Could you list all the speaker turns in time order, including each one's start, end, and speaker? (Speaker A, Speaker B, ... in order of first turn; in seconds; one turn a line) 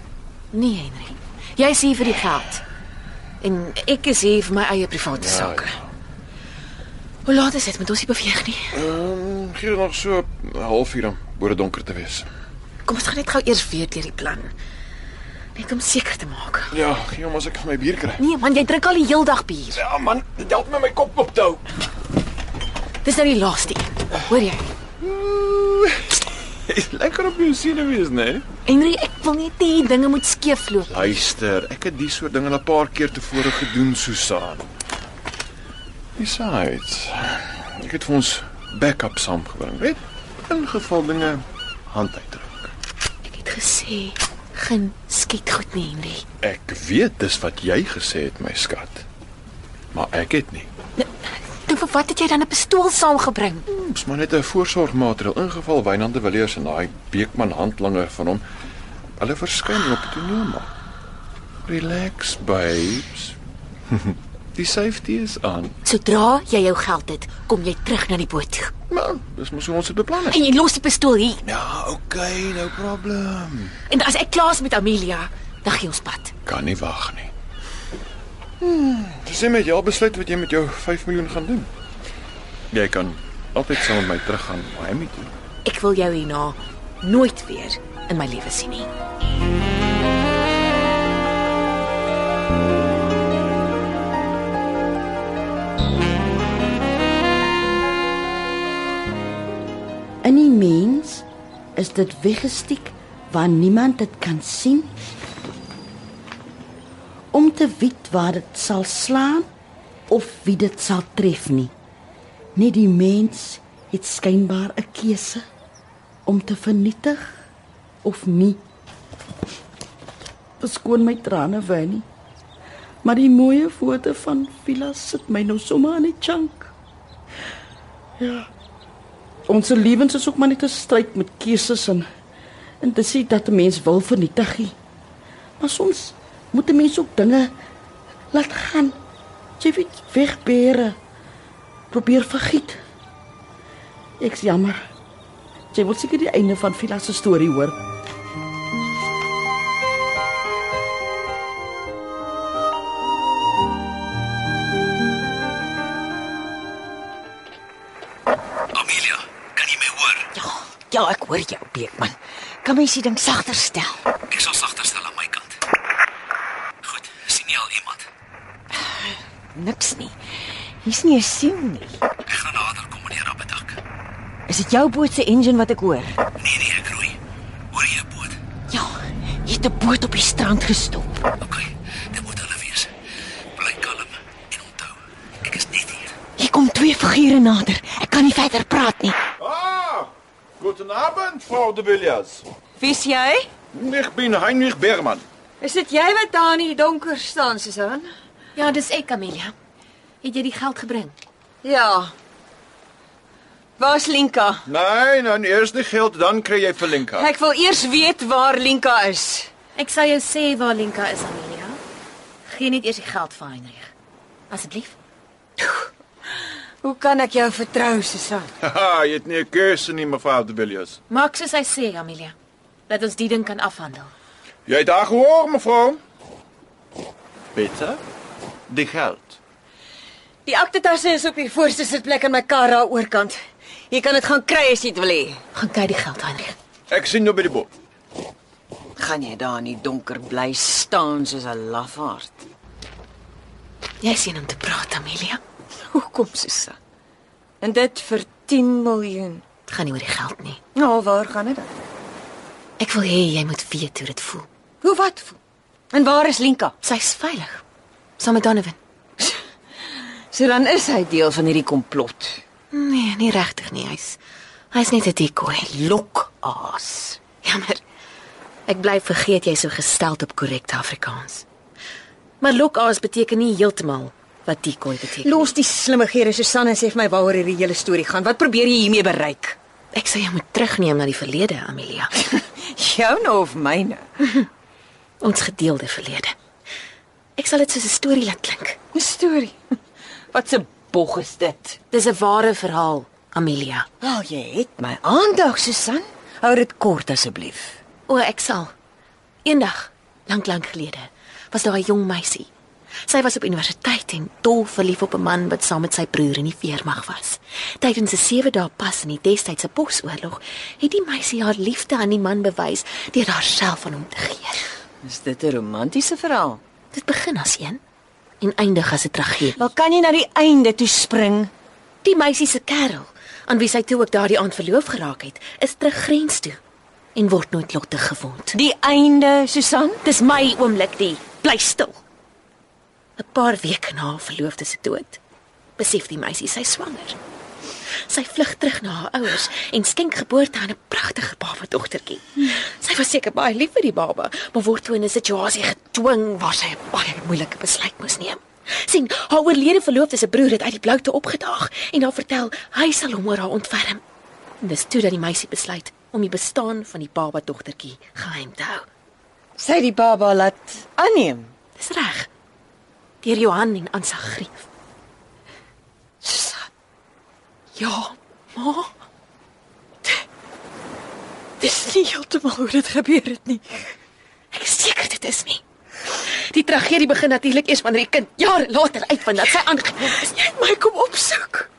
Speaker A: 0.5-2.6
Speaker A: 3.4-5.8
Speaker B: 5.2-5.8
Speaker A: 7.2-8.7
Speaker B: 8.7-12.3
Speaker A: 12.8-14.5
Speaker A: 15.5-16.7
Speaker B: 16.7-18.2
Speaker A: 18.2-19.8
Speaker B: 19.7-21.6
Speaker A: 23.0-24.6
Speaker B: 25.0-26.1
Speaker B: 26.7-28.4
Speaker A: 28.6-31.2
Speaker B: 30.9-34.7
Speaker B: 36.2-42.7
Speaker A: 43.2-46.2
Speaker B: 46.4-49.0
Speaker B: 49.9-50.7
Speaker A: 51.0-53.6
Speaker B: 53.7-58.4
Speaker B: 59.2-60.7
Speaker B: 61.7-63.4
Speaker B: 64.5-65.7
Speaker A: 65.8-68.7
Speaker B: 68.9-70.4
Speaker A: 70.3-71.4
Speaker B: 71.5-73.7
Speaker A: 73.9-76.3
Speaker B: 76.5-77.3
Speaker B: 78.6-81.7
Speaker B: 82.7-85.3
Speaker A: 85.6-88.9
Speaker C: 100.2-104.9
Speaker C: 107.3-109.5
Speaker C: 110.1-111.7
Speaker C: 112.5-115.4
Speaker C: 116.2-117.3
Speaker C: 118.0-118.6
Speaker C: 120.6-122.0
Speaker C: 123.0-126.7
Speaker C: 128.2-128.5
Speaker C: 129.5-132.1
Speaker C: 132.8-134.8
Speaker C: 135.6-137.5
Speaker C: 138.3-138.9
Speaker C: 139.6-140.9
Speaker C: 141.9-142.8
Speaker C: 144.2-144.8
Speaker C: 145.7-147.8
Speaker D: 158.7-160.3
Speaker E: 160.4-164.0
Speaker D: 164.2-165.6
Speaker D: 166.8-168.1
Speaker E: 169.5-170.2
Speaker E: 170.8-172.0
Speaker D: 172.2-173.8
Speaker E: 174.5-176.2
Speaker D: 176.4-177.2
Speaker D: 177.7-178.4
Speaker E: 178.7-181.3
Speaker D: 181.4-182.9
Speaker D: 183.6-186.1
Speaker E: 186.4-189.2
Speaker B: 189.4-192.4
Speaker E: 192.8-193.5
Speaker B: 193.7-195.2
Speaker E: 195.6-198.1
Speaker A: 198.5-199.5
Speaker A: 200.2-201.2
Speaker E: 201.6-202.1
Speaker E: 203.8-204.6
Speaker B: 204.7-207.3
Speaker E: 206.8-209.5
Speaker A: 209.8-211.8
Speaker A: 212.4-213.9
Speaker A: 214.5-215.0
Speaker E: 216.8-218.5
Speaker B: 218.6-221.0
Speaker A: 221.1-222.3
Speaker A: 222.9-224.1
Speaker B: 224.7-226.0
Speaker B: 227.5-228.0
Speaker B: 228.7-229.4
Speaker E: 230.4-233.4
Speaker E: 233.9-235.4
Speaker A: 235.5-236.6
Speaker B: 236.9-237.7
Speaker E: 239.0-242.3
Speaker A: 244.0-245.4
Speaker E: 245.9-246.8
Speaker E: 247.6-249.4
Speaker A: 249.7-250.6
Speaker E: 250.7-251.7
Speaker A: 252.8-254.5
Speaker E: 254.8-255.4
Speaker E: 255.9-256.7
Speaker A: 256.8-257.6
Speaker A: 258.2-258.8
Speaker E: 260.3-262.4
Speaker A: 262.7-264.2
Speaker A: 264.7-265.7
Speaker E: 265.7-267.2
Speaker A: 267.4-267.8
Speaker A: 268.7-271.4
Speaker A: 272.4-275.5
Speaker E: 275.2-279.6
Speaker A: 279.9-282.1
Speaker E: 282.2-284.0
Speaker A: 285.2-286.3
Speaker A: 287.4-288.8
Speaker E: 288.9-289.6
Speaker E: 290.3-291.8
Speaker A: 291.9-293.9
Speaker E: 294.0-297.8
Speaker A: 298.1-298.7
Speaker A: 299.4-302.5
Speaker A: 303.1-314.6
Speaker E: 315.0-316.6
Speaker A: 316.9-317.8
Speaker A: 318.4-319.6
Speaker E: 319.6-321.5
Speaker A: 322.0-326.6
Speaker A: 327.1-328.5
Speaker E: 328.5-330.0
Speaker A: 330.0-332.0
Speaker A: 333.2-335.2
Speaker A: 335.8-337.2
Speaker A: 338.1-354.0
Speaker A: 354.6-358.9
Speaker E: 359.6-361.5
Speaker A: 361.8-362.3
Speaker A: 363.2-364.6
Speaker E: 366.2-366.7
Speaker A: 367.8-368.9
Speaker E: 371.6-373.9
Speaker A: 374.5-375.6
Speaker A: 376.2-380.3
Speaker E: 380.1-381.7